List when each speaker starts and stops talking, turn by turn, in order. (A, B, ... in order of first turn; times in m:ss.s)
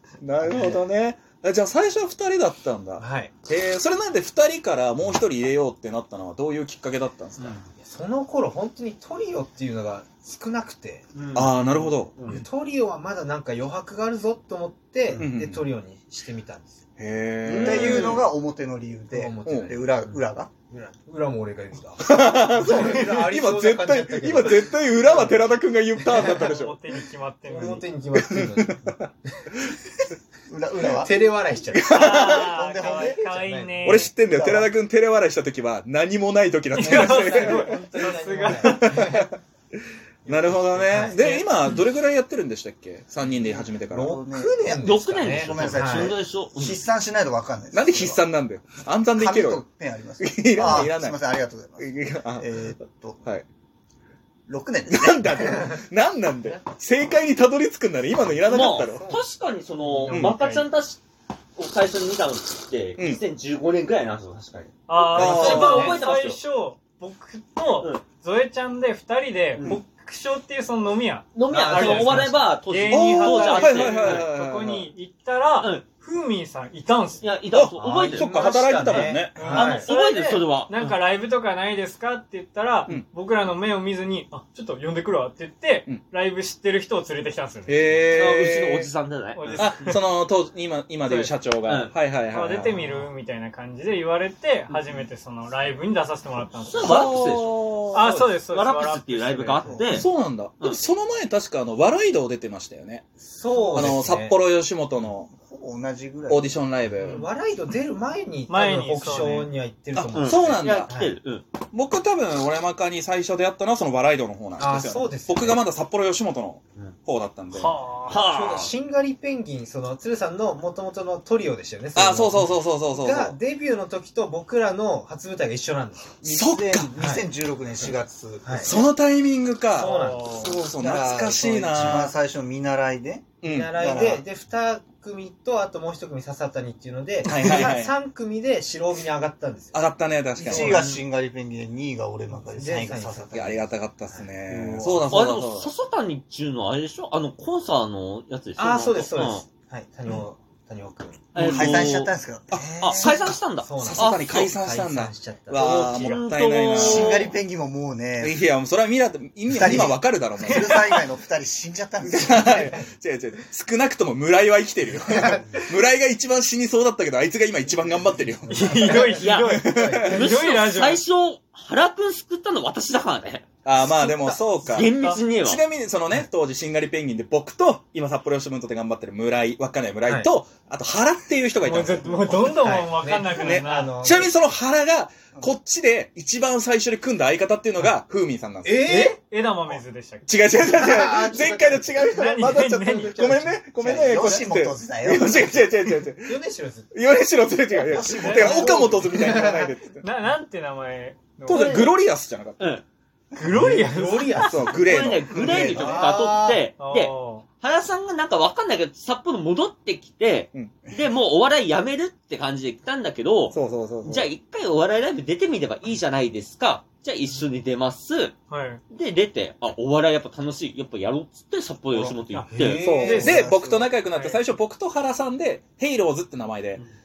0:00.2-0:07.6 A
0:00.4-0:00.8 B
0:03.0-0:03.3 B
0:07.4-0:07.6 C
0:07.7-0:11.1 B
0:11.1-0:12.4 C
0:11.4-0:12.3 A
0:12.2-0:16.8 B
0:15.2-0:15.6 A
0:17.0-0:18.2 A
0:17.4-0:18.3 C
0:17.5-0:20.5 D
0:17.8-0:18.2 B
0:19.1-0:26.6 B
0:22.0-0:26.8 A
0:26.1-0:27.8 E
0:27.4-0:29.0 B
0:28.2-0:29.0 A
0:30.5-0:31.2 D
0:30.8-0:34.0 B
0:31.7-0:32.6 A
0:31.9-0:34.2 E
0:32.3-0:33.2 D
0:33.8-0:37.9 A
0:34.2-0:34.7 D
0:36.8-0:39.2 E
0:36.8-0:39.3 B
0:38.6-0:39.3 A
0:40.3-0:44.2 A
0:40.3-0:41.0 D
0:40.8-0:41.2 B
0:41.0-0:41.8 E
0:43.7-0:48.2 D
0:43.8-0:46.2 B
0:44.8-0:46.8 C
0:47.7-0:49.6 A
0:49.2-0:53.2 D
0:50.2-0:51.2 A
0:51.8-0:52.7 A
0:54.5-0:55.4 D
0:54.9-0:59.2 A
0:58.4-1:01.0 C
0:58.6-0:59.2 B
1:00.0-1:00.7 E
1:00.1-1:00.4 A
1:01.6-1:06.4 C
1:03.0-1:03.2 A
1:04.9-1:17.4 E
1:05.1-1:05.9 A
1:05.1-1:06.0 B
1:07.8-1:08.0 C
1:09.6-1:09.8 C
1:11.4-1:14.3 C
1:11.8-1:12.2 B
1:12.9-1:14.9 A
1:17.2-1:18.3 C
1:17.5-1:19.5 A
1:17.8-1:19.9 B
1:18.8-1:21.0 C
1:19.4-1:28.0 E
1:27.7-1:28.9 A
1:28.1-1:29.7 C
1:29.3-1:30.0 E
1:29.6-1:33.1 A
1:31.0-1:31.4 E
1:31.6-1:32.0 C
1:32.2-1:37.2 E
1:36.7-1:40.8 C
1:36.8-1:38.1 A
1:37.9-1:39.7 E
1:38.0-1:38.3 B
1:39.9-1:43.1 A
1:43.2-1:44.4 B
1:43.6-1:44.0 E
1:43.7-1:45.3 A
1:45.3-1:46.6 D
1:46.3-1:47.3 A
1:47.0-1:47.3 E
1:47.0-1:51.2 B
1:48.5-1:49.5 E
1:50.0-1:51.5 C
1:50.2-1:51.0 A
1:51.7-1:57.8 A
1:54.6-1:55.7 B
1:57.5-1:58.3 E
1:58.1-1:58.7 C
1:58.1-2:06.2 B
2:02.0-2:03.4 A
2:06.2-2:08.9 D
2:06.2-2:06.9 A
2:06.9-2:07.3 B
2:07.8-2:08.8 B
2:08.6-2:12.1 A
2:09.7-2:10.6 E
2:09.8-2:12.1 B
2:10.7-2:14.2 D
2:13.4-2:13.7 A
2:13.4-2:19.9 B
2:17.2-2:18.0 A
2:19.7-2:21.0 A
2:20.4-2:23.6 D
2:20.4-2:21.0 B
2:22.3-2:24.3 B
2:23.3-2:25.7 A
2:24.5-2:25.2 D
2:24.5-2:29.4 C
2:28.6-2:31.3 B
2:31.3-2:32.1 C
2:31.4-2:31.8 A
2:31.4-2:33.1 D
2:32.5-2:33.2 A
2:32.6-2:35.9 B
2:32.8-2:34.5 C
2:33.8-2:37.0 A
2:35.6-2:37.3 C
2:35.6-2:36.3 E
2:36.8-2:38.4 D
2:38.2-2:40.9 A
2:39.5-2:42.7 D
2:40.4-2:41.1 E
2:42.0-2:50.4 A
2:42.4-2:42.8 B
2:48.5-2:51.0 E
2:48.6-2:49.2 B
2:49.1-2:53.4 C
2:53.6-3:02.8 A
2:53.8-2:54.4 B
2:54.7-2:55.6 C
2:54.8-2:55.2 E
3:00.1-3:00.3 B
3:01.6-3:04.1 E
3:02.6-3:04.4 B
3:03.3-3:09.1 A
3:08.6-3:09.8 B
3:08.9-3:10.3 E
3:10.3-3:16.3 A
3:10.6-3:12.3 B
3:12.1-3:13.5 E
3:13.0-3:14.4 B
3:13.8-3:15.6 D
3:16.2-3:16.9 B
3:16.9-3:20.1 A
3:17.9-3:18.8 C
3:18.0-3:19.0 E
3:18.3-3:19.7 B
3:20.0-3:21.9 E
3:21.4-3:22.7 A
3:21.5-3:21.9 C
3:22.6-3:22.8 C
3:23.3-3:24.8 E
3:23.4-3:26.6 B
3:24.4-3:25.9 A
3:24.8-3:38.4 C
3:25.4-3:26.1 D
3:26.8-3:27.4 E
3:33.5-3:34.3 A
3:38.5-3:38.8 E
3:38.9-3:42.8 C
3:41.9-3:42.2 D
3:42.3-3:43.5 E
3:42.5-3:43.4 B
3:42.8-3:46.8 A
3:42.8-3:44.0 D
3:44.0-3:44.4 E